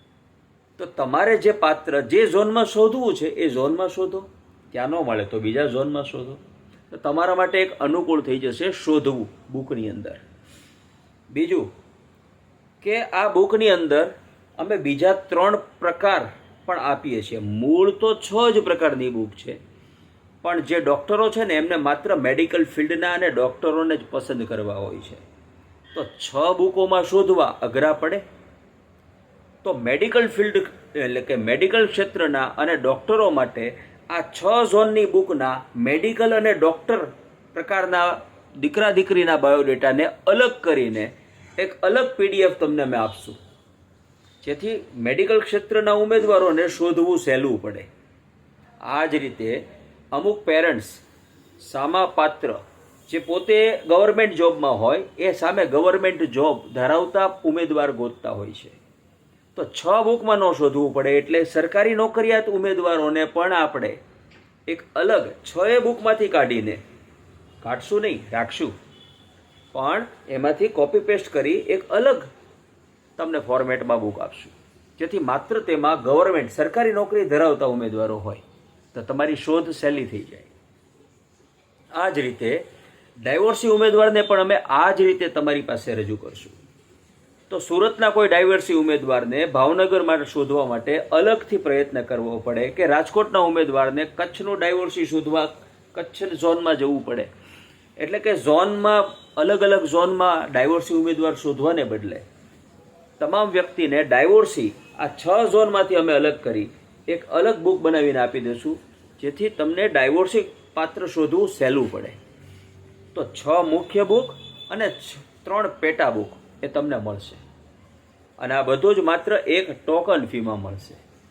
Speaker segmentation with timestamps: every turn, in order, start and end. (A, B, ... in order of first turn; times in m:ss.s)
0:00.8-0:10.2 A
0:11.3-0:11.7 A
0:12.8-0:19.6 A
0:20.4-0:25.2 A
0:25.9-0:28.2 A
0:29.6-0:43.4 A
0:44.4-0:47.9 A
0:48.8-0:51.0 A
0:51.6-0:58.8 A
0:59.6-1:04.0 A
1:04.7-1:06.8 A
1:07.6-1:08.8 A
1:09.7-1:12.3 A
1:13.2-1:20.5 A
1:21.9-1:22.6 A
1:23.2-1:26.6 A
1:27.5-1:37.3 A
1:38.0-1:42.2 A
1:43.2-1:52.2 A
1:53.1-1:57.4 A
1:58.4-2:01.0 A